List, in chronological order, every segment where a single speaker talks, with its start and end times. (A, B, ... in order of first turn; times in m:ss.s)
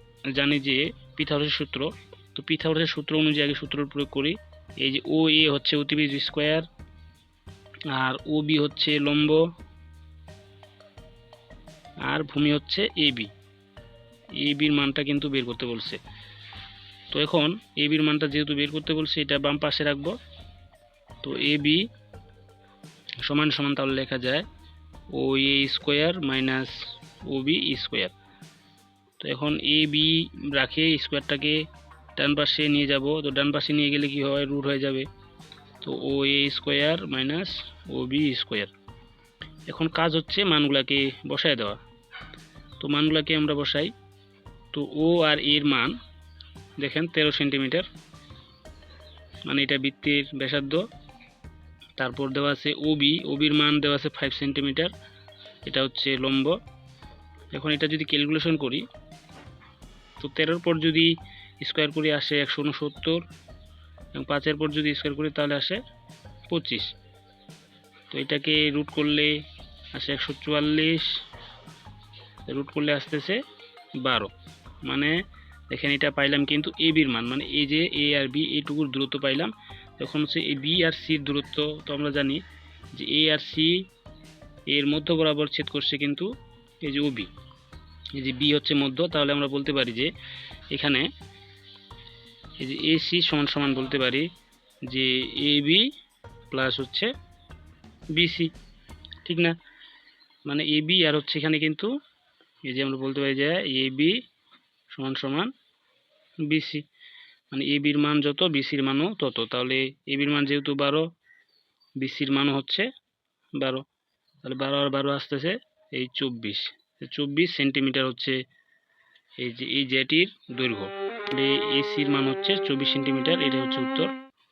0:00.4-0:06.7 A
0:07.9-0:09.4 A
0:12.1-0:13.3 A
0:14.4-0:16.0 A
0:17.1-0:20.2 A
0:21.2-0:21.8 A
0:23.2-0:24.4 A
0:25.2-0:26.8 A
0:27.3-0:28.1 A
0:29.2-0:31.6 A
0:32.2-0:35.1 A
0:35.8-0:38.7 A
0:39.7-0:41.8 A
0:42.8-0:43.9 A
0:44.7-0:45.9 A
0:46.8-0:47.9 A
0:49.5-0:50.8 A
0:52.0-0:54.9 A
0:55.7-0:56.6 A
0:57.5-0:58.8 A
1:00.2-1:03.2 A
1:04.2-1:05.8 A
1:06.5-1:06.9 A
1:08.1-1:09.3 A
1:10.0-1:11.1 A
1:12.5-1:13.4 A
1:14.0-1:14.3 A
1:14.9-1:15.1 A
1:15.7-1:22.4 A
1:23.0-1:23.7 A
1:24.7-1:26.3 A
1:26.8-1:27.3 A
1:28.2-1:30.1 A
1:30.7-1:31.1 A
1:32.6-1:34.3 A
1:34.9-1:35.9 A
1:36.5-1:37.1 A
1:38.2-1:38.5 A
1:39.2-1:39.6 A
1:40.5-1:41.9 A
1:42.7-1:44.2 A
1:44.9-1:45.5 A
1:46.5-1:46.8 A
1:47.5-1:51.0 A
1:52.0-1:52.9 A
1:53.6-1:53.8 A
1:54.4-1:58.4 A
1:59.4-2:04.1 A